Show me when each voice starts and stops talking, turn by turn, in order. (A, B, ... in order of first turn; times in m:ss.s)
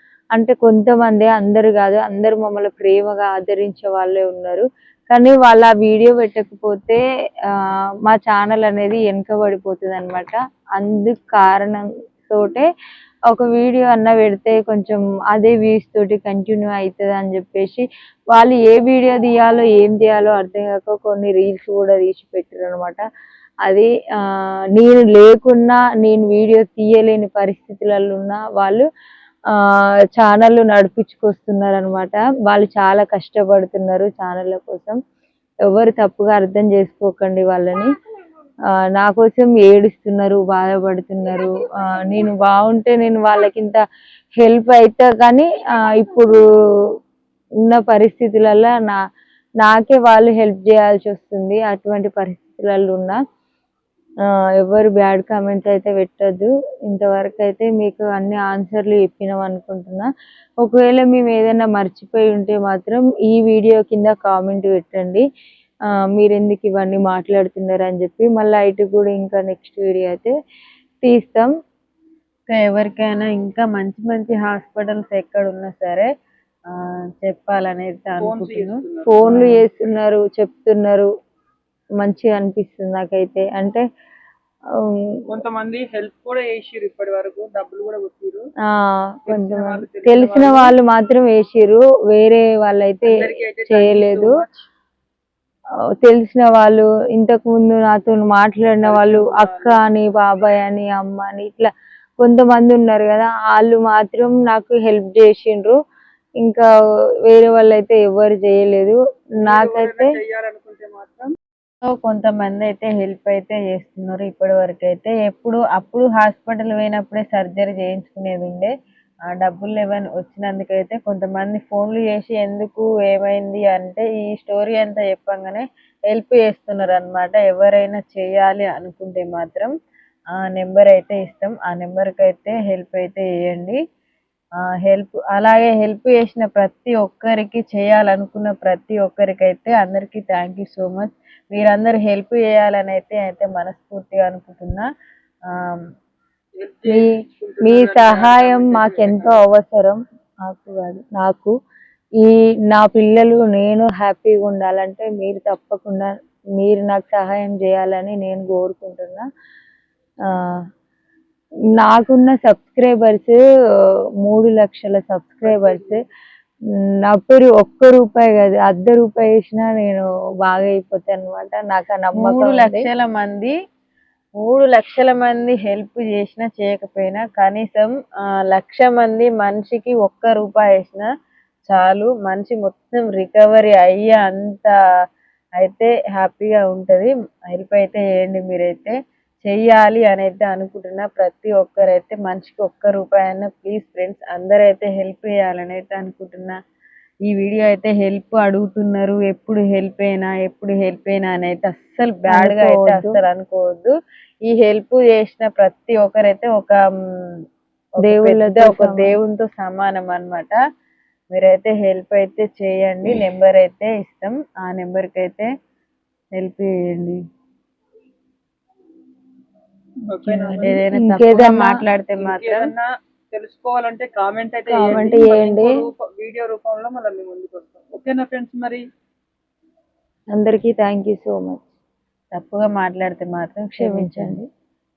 0:00.3-0:07.0 A
0:08.0-0:12.7 A
0:13.3-0:23.0 A
0:24.8-0:28.8 A
0:30.2-0:35.0 A
0:35.7-0:37.9 A
0:38.9-0:43.8 A
0:44.4-0:46.4 A
0:47.6-0:49.0 A
0:49.6-0:53.2 A
0:54.6-1:05.2 A
1:06.2-1:10.3 A
1:11.0-1:11.5 A
1:12.5-1:16.1 B
1:16.7-1:19.6 B
1:18.2-1:19.2 C
1:19.1-1:21.1 A
1:22.0-1:23.8 A
1:24.9-1:25.2 A
1:25.3-1:28.4 C
1:28.7-1:33.1 A
1:29.3-1:30.7 C
1:33.0-1:34.7 C
1:33.7-1:34.3 A
1:36.0-1:45.8 A
1:38.8-1:39.8 C
1:46.4-1:46.7 A
1:47.3-1:50.2 A
1:49.4-1:51.3 C
1:51.8-1:58.7 B
1:59.4-2:09.7 B
2:10.4-2:13.8 B
2:14.8-2:24.9 B
2:25.5-2:25.8 B
2:26.6-2:29.4 C
2:27.6-2:31.5 A
2:32.2-2:39.2 A
2:41.8-2:43.4 A
2:44.2-2:46.0 A
2:45.4-2:46.0 C
2:47.1-2:52.9 A
2:52.2-2:53.5 B
2:54.4-2:57.9 B
2:58.5-3:01.1 B
3:01.7-3:04.7 B
3:05.6-3:16.5 B
3:17.2-3:23.9 B
3:22.3-3:23.2 A
3:24.4-3:26.8 B
3:28.0-3:29.1 A
3:28.0-3:30.6 B
3:31.3-3:35.5 B
3:36.4-3:37.2 B
3:40.1-3:40.8 C
3:40.2-3:41.7 A
3:40.6-3:42.7 B
3:42.2-3:48.8 C
3:44.7-3:45.7 A
3:50.3-3:51.7 A
3:52.3-3:54.4 B
3:53.8-3:54.4 A